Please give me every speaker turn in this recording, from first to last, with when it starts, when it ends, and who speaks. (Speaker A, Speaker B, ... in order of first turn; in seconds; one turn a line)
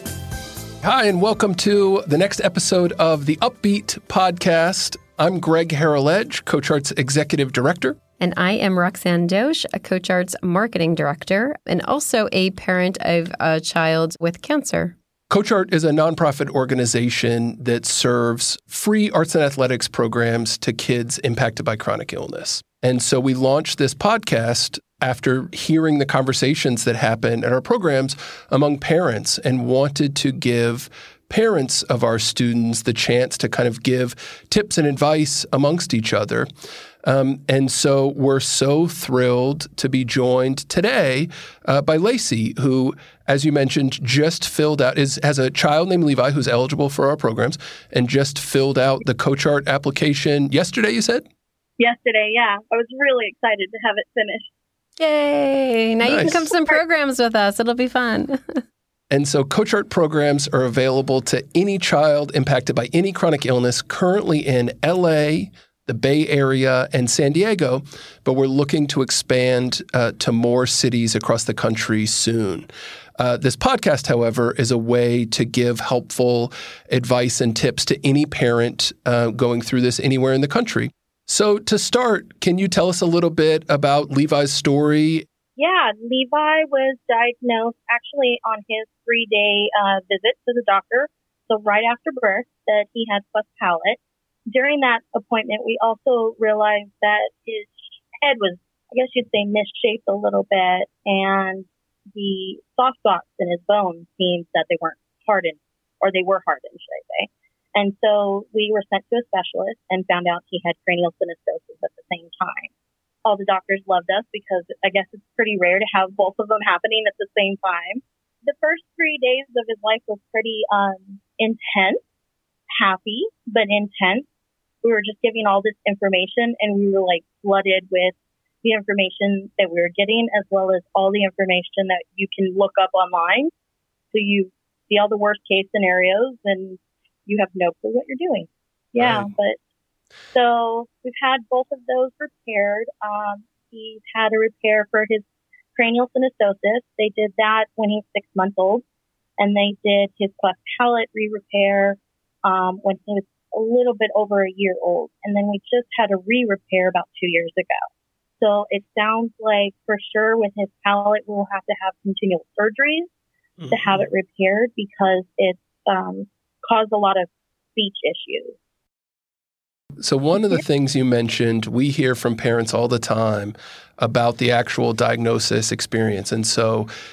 Speaker A: 0.8-8.0
Speaker B: 8.2-14.9
Speaker A: 15.3-36.5
Speaker A: 37.0-51.2
Speaker C: 51.8-54.5
Speaker B: 55.0-58.4
Speaker A: 56.0-56.5
Speaker A: 59.1-85.2
Speaker C: 85.5-112.7
Speaker C: 113.2-122.0
Speaker C: 122.8-124.3
Speaker C: 124.8-133.5
Speaker C: 134.1-139.6
Speaker A: 139.0-139.3
Speaker C: 140.3-145.2
Speaker C: 145.7-148.8
Speaker C: 149.4-157.8
Speaker C: 158.4-163.1
Speaker A: 163.6-164.0
Speaker C: 163.7-168.6
Speaker A: 170.0-176.9